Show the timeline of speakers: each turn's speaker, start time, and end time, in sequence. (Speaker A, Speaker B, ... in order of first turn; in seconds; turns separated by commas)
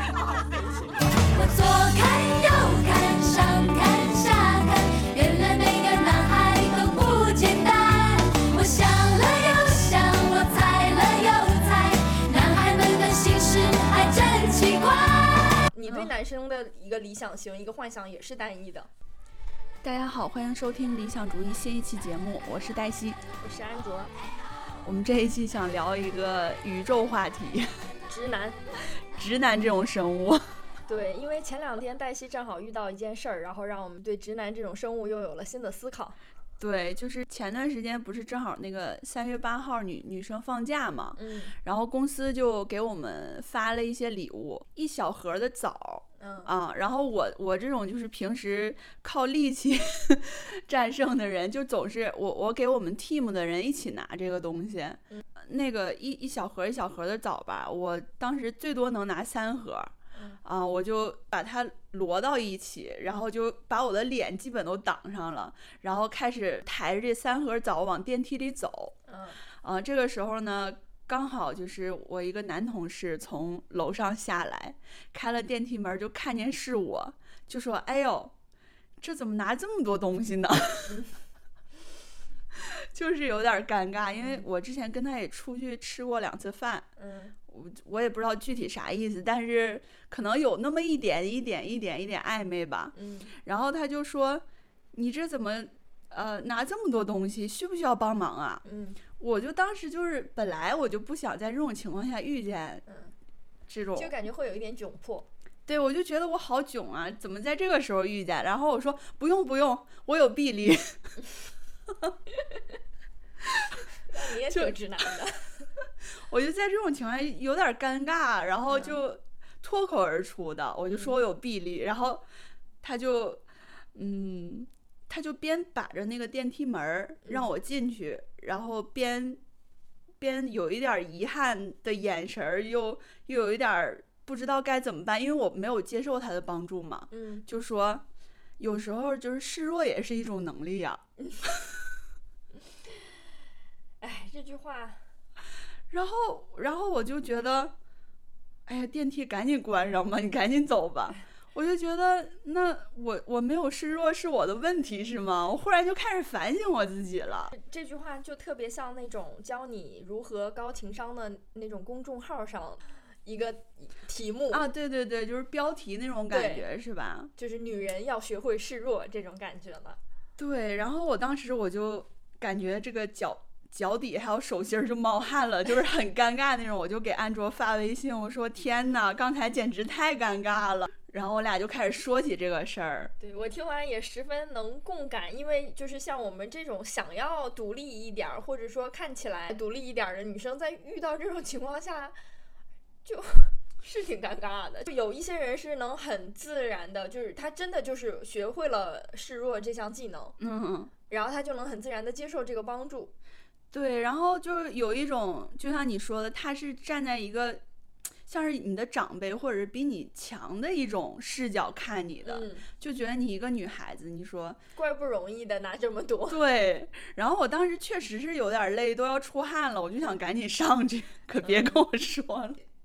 Speaker A: 1.3-15.7, Speaker B: 15.7-18.9, Speaker C: 19.8-23.2, Speaker B: 23.4-24.1, Speaker C: 24.8-27.8, Speaker B: 28.1-28.6, Speaker C: 29.1-30.5, Speaker B: 30.9-36.2, Speaker C: 36.6-69.0, Speaker B: 41.2-41.5, Speaker B: 46.2-46.5, Speaker B: 69.1-69.4, Speaker C: 69.5-78.3, Speaker C: 79.0-81.0, Speaker C: 82.5-86.9, Speaker B: 84.2-84.4, Speaker B: 87.0-87.3, Speaker C: 87.5-98.6, Speaker B: 93.0-93.3, Speaker B: 98.6-99.0, Speaker C: 99.2-102.8, Speaker B: 102.9-103.1, Speaker C: 103.7-104.2, Speaker B: 104.0-105.3, Speaker C: 105.7-111.1, Speaker B: 114.1-115.7, Speaker C: 114.5-114.8, Speaker C: 116.2-122.2, Speaker B: 118.7-119.0, Speaker B: 120.9-121.2, Speaker C: 122.8-129.4, Speaker C: 130.2-138.0, Speaker B: 137.1-137.4, Speaker C: 138.6-141.0, Speaker B: 141.2-141.5, Speaker B: 144.0-145.0, Speaker C: 145.9-147.8, Speaker C: 148.7-157.5, Speaker B: 157.5-164.7, Speaker C: 164.5-167.3, Speaker B: 166.3-166.7, Speaker B: 167.4-170.0, Speaker C: 170.4-183.1, Speaker B: 183.2-192.2, Speaker B: 193.1-200.4, Speaker C: 200.4-200.9, Speaker B: 201.1-203.1, Speaker C: 203.7-207.6, Speaker C: 208.3-214.6, Speaker B: 212.2-212.7, Speaker B: 214.8-216.4, Speaker C: 216.3-222.6, Speaker B: 221.4-221.8